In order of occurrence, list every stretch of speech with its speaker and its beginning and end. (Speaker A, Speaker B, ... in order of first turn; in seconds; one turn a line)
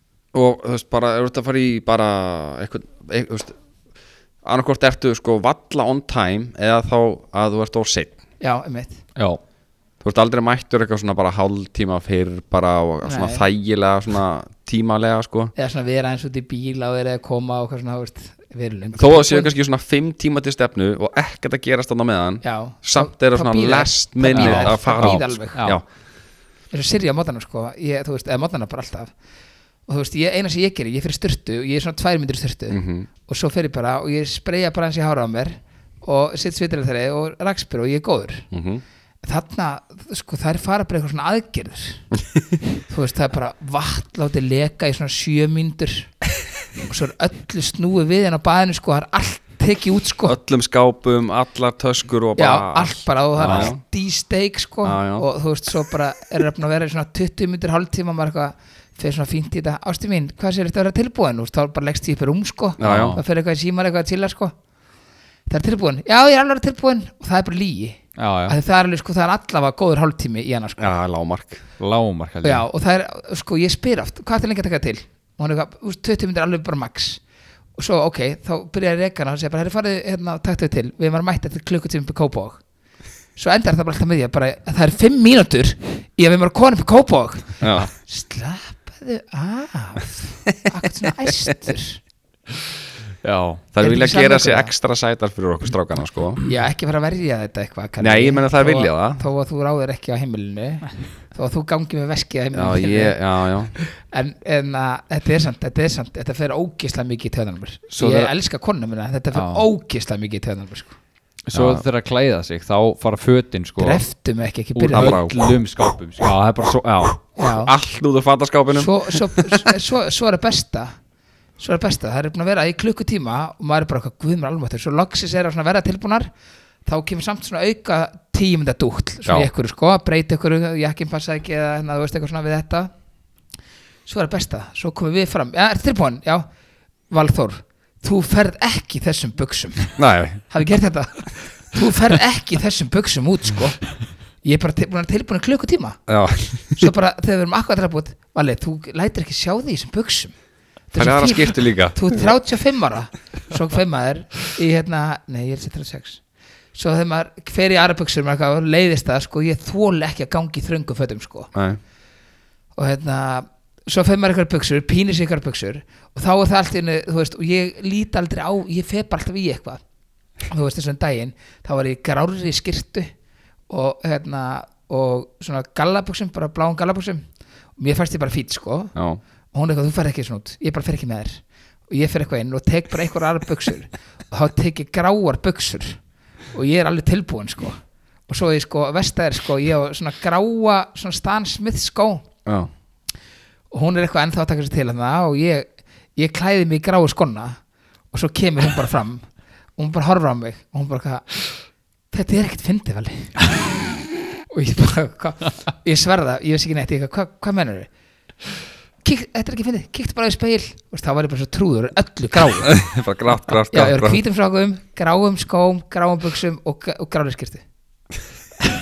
Speaker A: 0.3-3.6
Speaker A: 4.4-8.2
Speaker B: 8.4-9.0
Speaker C: 9.2-9.4
Speaker A: 10.0-15.5
Speaker B: 13.1-13.5
Speaker B: 15.6-19.5
Speaker A: 18.9-25.9
Speaker B: 22.4-25.7
Speaker C: 24.3-25.8
Speaker B: 26.7-29.1
Speaker B: 29.9-38.5
Speaker A: 32.7-33.1
Speaker A: 38.5-38.8
Speaker B: 39.2-42.0
Speaker B: 42.9-46.2
Speaker B: 46.8-50.4
Speaker A: 50.2-53.8
Speaker B: 52.4-64.5
Speaker C: 53.4-53.7
Speaker A: 54.8-55.3
Speaker A: 62.8-63.2
Speaker C: 62.8-63.2
Speaker B: 65.5-70.9
Speaker C: 68.2-68.6
Speaker A: 70.8-71.7
Speaker C: 71.8-72.7
Speaker B: 72.4-77.2
Speaker B: 77.8-82.6
Speaker B: 83.4-92.0
Speaker A: 87.6-87.9
Speaker C: 93.2-93.7
Speaker A: 93.7-96.4
Speaker B: 93.8-94.7
Speaker B: 96.5-103.2
Speaker A: 98.0-99.2
Speaker A: 102.5-103.8
Speaker B: 103.8-111.0
Speaker C: 108.0-108.3
Speaker C: 109.3-109.7
Speaker C: 111.5-114.0
Speaker A: 111.5-111.8
Speaker B: 113.8-115.2
Speaker C: 114.8-117.2
Speaker A: 114.9-115.6
Speaker A: 116.2-119.7
Speaker B: 117.4-117.7
Speaker B: 118.7-121.0
Speaker B: 121.6-126.3
Speaker B: 126.8-132.9
Speaker B: 134.1-136.5
Speaker B: 137.1-146.1
Speaker A: 140.0-140.4
Speaker A: 146.1-146.9
Speaker B: 146.7-150.3
Speaker B: 150.9-156.2
Speaker A: 150.9-152.3
Speaker B: 156.7-161.5
Speaker A: 161.5-161.8
Speaker B: 162.8-169.8
Speaker B: 170.4-173.1
Speaker B: 173.7-177.2
Speaker B: 177.8-178.9
Speaker A: 178.9-179.2
Speaker B: 179.5-186.0
Speaker B: 186.5-192.3
Speaker A: 192.5-192.7
Speaker B: 193.7-197.6
Speaker B: 198.1-199.3
Speaker B: 199.8-201.5
Speaker B: 202.1-203.4
Speaker B: 204.5-207.9
Speaker B: 209.0-212.8
Speaker A: 212.6-214.2
Speaker B: 213.7-217.6